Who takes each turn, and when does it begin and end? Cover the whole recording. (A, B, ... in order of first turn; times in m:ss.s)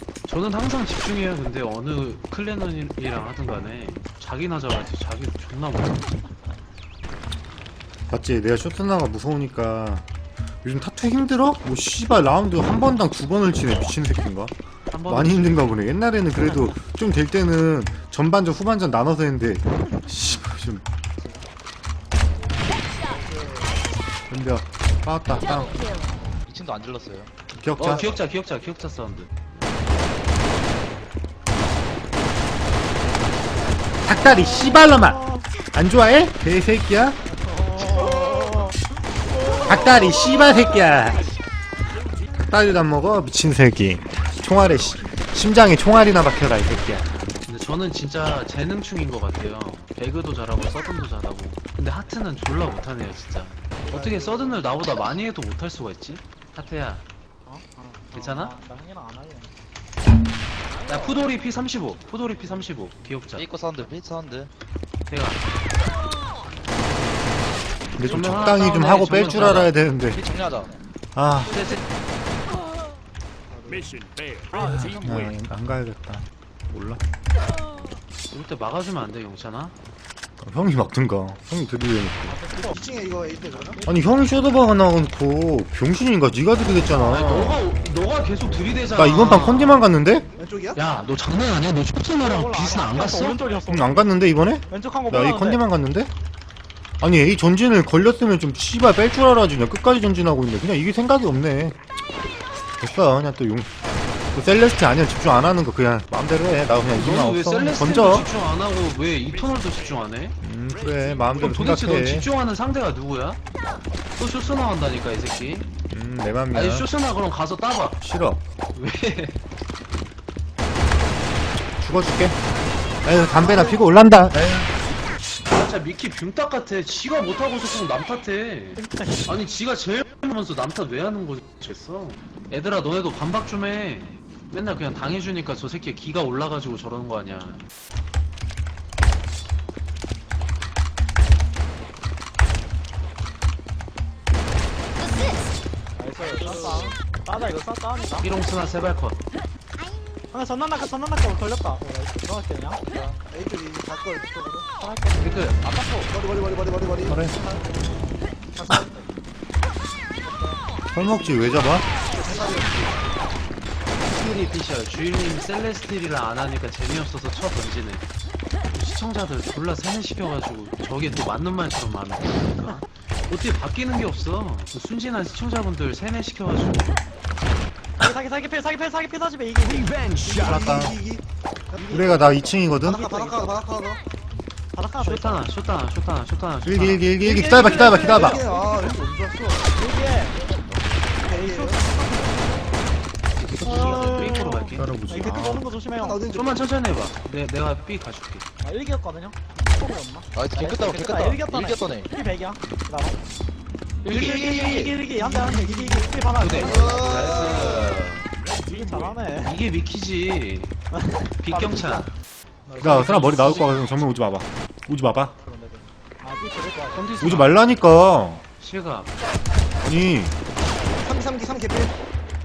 0:00.3-0:06.1 A
0:08.1-0:10.0 B
0:10.6-0:14.5 B
0:14.9-0:15.8 A
0:15.1-0:20.8 B
0:23.0-0:23.8 C
0:24.3-0:26.0 B
0:26.4-0:27.3 D
0:27.5-0:28.1 B
0:27.8-0:29.5 A
0:34.0-0:37.2 B
0:34.5-0:35.4 E
0:37.5-0:38.7 E
0:38.0-0:38.5 C
0:39.6-0:41.3 B
0:42.3-0:47.3 B
0:47.4-0:57.0 A
0:53.8-0:54.7 C
0:57.4-0:59.5 E
0:58.1-0:58.5 A
1:00.7-1:01.3 E
1:00.9-1:03.5 A
1:03.3-1:04.5 D
1:05.1-1:05.4 A
1:08.0-1:10.2 B
1:08.0-1:09.8 A
1:10.1-1:10.7 D
1:11.1-1:11.8 B
1:11.5-1:11.8 A
1:13.5-1:13.9 C
1:14.5-1:17.0 B
1:18.3-1:19.7 A
1:20.4-1:22.4 B
1:22.2-1:22.8 E
1:22.7-1:23.8 C
1:23.6-1:24.0 E
1:23.8-1:27.6 B
1:26.9-1:29.9 A
1:28.9-1:30.3 B
1:30.4-1:30.8 C
1:30.7-1:33.4 A
1:32.2-1:34.1 E
1:33.7-1:36.1 B
1:34.7-1:35.6 E
1:37.0-1:41.8 B
1:42.8-1:43.7 B
1:44.3-1:48.3 B
1:46.9-1:50.4 A
1:50.4-1:52.3 B
1:51.4-1:53.4 A
1:54.2-1:55.7 A
1:55.9-1:56.9 B
1:56.5-1:58.0 A
1:58.0-1:58.4 B
1:58.7-1:59.4 A
2:01.8-2:02.4 B
2:03.0-2:04.7 B
2:03.4-2:03.8 C
2:05.5-2:17.6 A
2:08.8-2:09.4 E
2:26.0-2:28.3 E
2:28.2-2:29.2 A
2:30.3-2:32.8 E
2:32.9-2:33.2 D
2:33.2-2:34.7 C
2:34.8-2:35.5 E
2:35.2-2:35.6 A
2:35.6-2:36.1 D
2:36.1-2:37.2 C
2:37.1-2:37.4 B
2:37.2-2:37.6 E
2:38.5-2:39.1 E
2:40.2-2:40.6 E
2:40.9-2:41.9 B
2:42.2-2:42.9 C
2:44.0-2:48.0 A
2:48.7-2:57.0 A
2:58.0-3:00.3 E
3:00.2-3:01.9 C
3:00.3-3:01.0 B
3:01.7-3:03.6 E
3:01.9-3:03.0 B
3:02.8-3:04.0 C
3:04.7-3:05.5 E
3:05.0-3:07.1 A
3:06.6-3:08.4 B
3:07.2-3:09.7 C
3:07.4-3:08.9 E
3:09.7-3:10.4 E
3:11.2-3:11.8 C
3:11.2-3:12.8 E
3:13.4-3:14.9 A
3:13.5-3:14.2 D
3:13.6-3:16.2 E
3:14.0-3:15.6 B
3:16.0-3:16.7 C
3:16.3-3:18.4 A
3:18.6-3:23.2 E
3:20.3-3:22.1 D
3:24.0-3:24.9 A
3:24.1-3:27.8 E
3:24.1-3:28.0 C
3:26.4-3:28.3 A
3:28.6-3:29.6 E
3:29.4-3:30.8 A
3:30.9-3:32.0 E
3:31.4-3:32.1 A
3:32.7-3:33.6 E
3:32.8-3:33.8 A
3:32.8-3:35.3 B
3:35.4-3:37.2 E
3:36.9-3:37.6 A
3:37.2-3:38.4 B
3:38.6-3:39.2 A
3:39.8-3:40.4 B
3:41.0-3:41.9 C